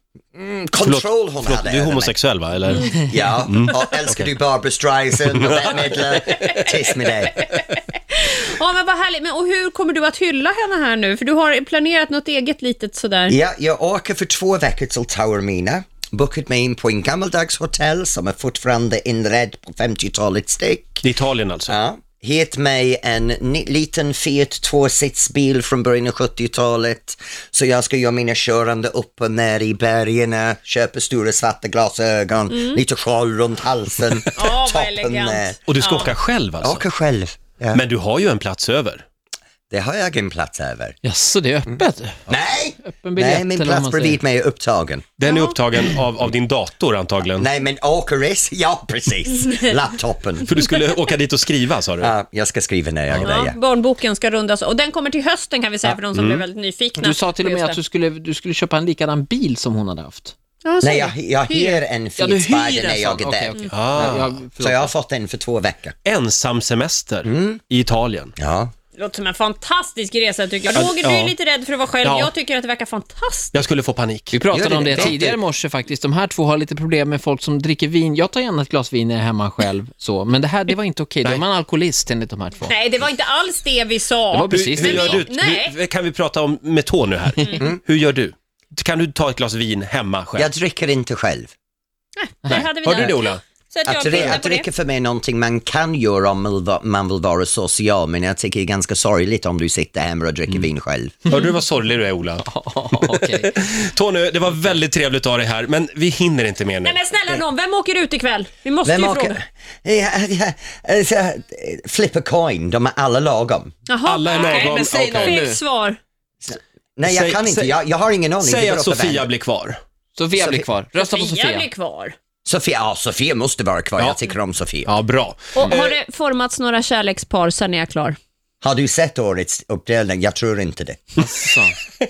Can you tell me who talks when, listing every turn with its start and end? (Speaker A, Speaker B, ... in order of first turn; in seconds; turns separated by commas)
Speaker A: 0.3-2.1, Speaker B: 0.8-3.9, Speaker A: 3.0-7.4, Speaker B: 5.3-6.0, Speaker C: 6.3-6.7, Speaker C: 7.3-13.3, Speaker A: 13.3-21.0, Speaker B: 21.0-21.7, Speaker A: 21.7-35.5, Speaker C: 32.5-32.8, Speaker C: 34.3-36.1, Speaker B: 35.7-36.8, Speaker A: 36.6-37.8, Speaker B: 37.7-39.0, Speaker A: 39.7-41.0, Speaker D: 41.0-42.2, Speaker A: 42.3-45.1, Speaker D: 42.8-44.2, Speaker B: 45.2-47.5, Speaker C: 45.2-45.6, Speaker A: 47.4-50.5, Speaker B: 50.5-52.1, Speaker A: 52.0-53.6, Speaker B: 53.1-53.4, Speaker C: 53.2-57.8, Speaker B: 56.1-56.4, Speaker D: 57.0-60.3, Speaker C: 60.6-61.8, Speaker A: 60.8-65.9, Speaker D: 62.2-64.9, Speaker B: 63.7-64.3, Speaker B: 66.0-68.3, Speaker A: 67.2-67.6, Speaker A: 68.4-68.7, Speaker C: 69.0-73.6, Speaker B: 70.7-71.3, Speaker B: 72.0-72.3, Speaker B: 73.5-74.4, Speaker D: 74.3-82.7, Speaker A: 74.5-75.4, Speaker B: 74.9-75.2, Speaker C: 82.7-85.8, Speaker D: 84.3-85.2, Speaker B: 84.5-90.5, Speaker C: 87.4-87.7, Speaker A: 90.3-91.5, Speaker C: 92.2-94.7, Speaker D: 92.4-93.1, Speaker B: 92.5-93.4, Speaker A: 93.8-101.1, Speaker B: 101.3-107.0, Speaker D: 102.4-103.6, Speaker C: 106.8-109.4, Speaker A: 108.8-113.7, Speaker C: 113.9-116.0, Speaker B: 114.0-115.4, Speaker D: 114.3-115.6, Speaker A: 116.4-119.3, Speaker B: 117.0-117.8, Speaker B: 118.4-119.8, Speaker D: 120.2-121.7, Speaker A: 120.3-120.7, Speaker C: 121.0-122.2, Speaker A: 122.4-124.9, Speaker B: 124.8-125.9, Speaker C: 125.5-128.2, Speaker A: 128.6-131.1, Speaker D: 131.2-131.8